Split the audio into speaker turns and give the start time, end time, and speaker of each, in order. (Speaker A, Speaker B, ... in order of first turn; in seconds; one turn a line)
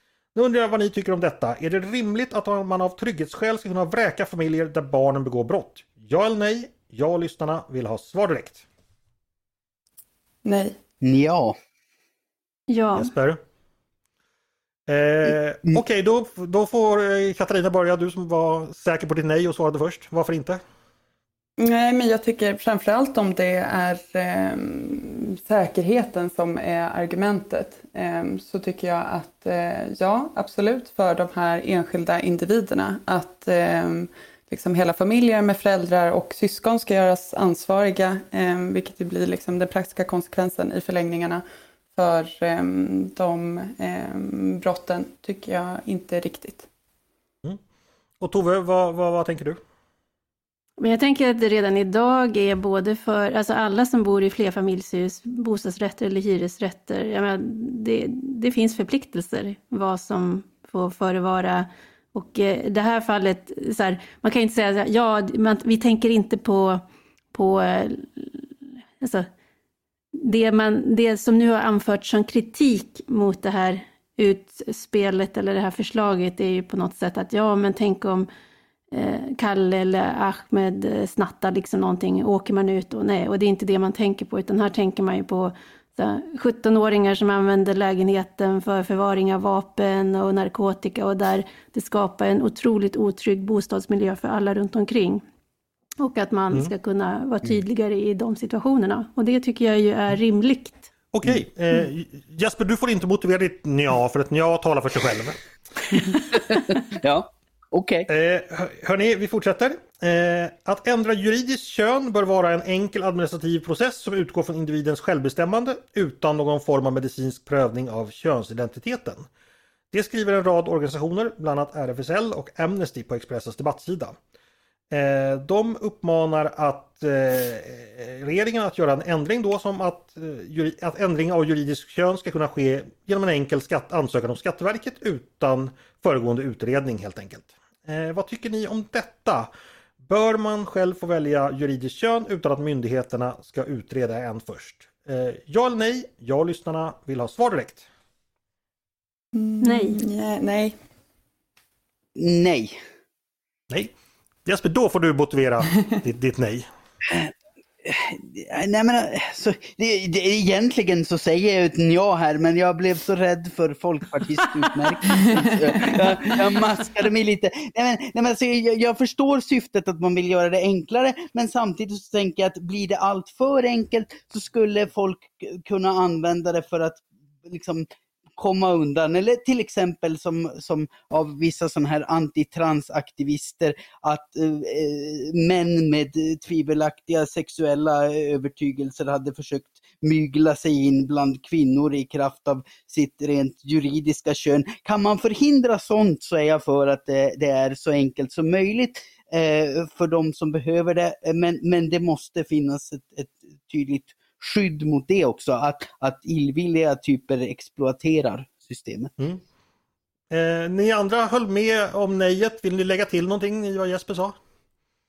Speaker A: 0.3-8.6
Speaker B: 10.4-10.8
Speaker C: 11.0-11.5
Speaker D: 12.7-13.1
Speaker A: 13.0-13.4
Speaker A: 14.9-20.6
Speaker B: 21.6-41.4
Speaker B: 41.9-46.7
Speaker A: 48.2-49.6
Speaker D: 50.8-66.8
Speaker D: 67.3-69.3
Speaker D: 70.2-78.3
Speaker D: 78.9-95.2
Speaker D: 96.0-100.9
Speaker A: 101.1-105.4
Speaker C: 106.5-108.1
Speaker A: 108.1-119.3
Speaker A: 119.9-124.1
Speaker A: 124.9-139.5
Speaker A: 140.0-147.8
Speaker B: 149.3-150.7
Speaker D: 149.6-150.0
Speaker C: 152.2-152.8
Speaker A: 154.4-156.7
Speaker C: 157.8-209.1
Speaker A: 210.3-214.3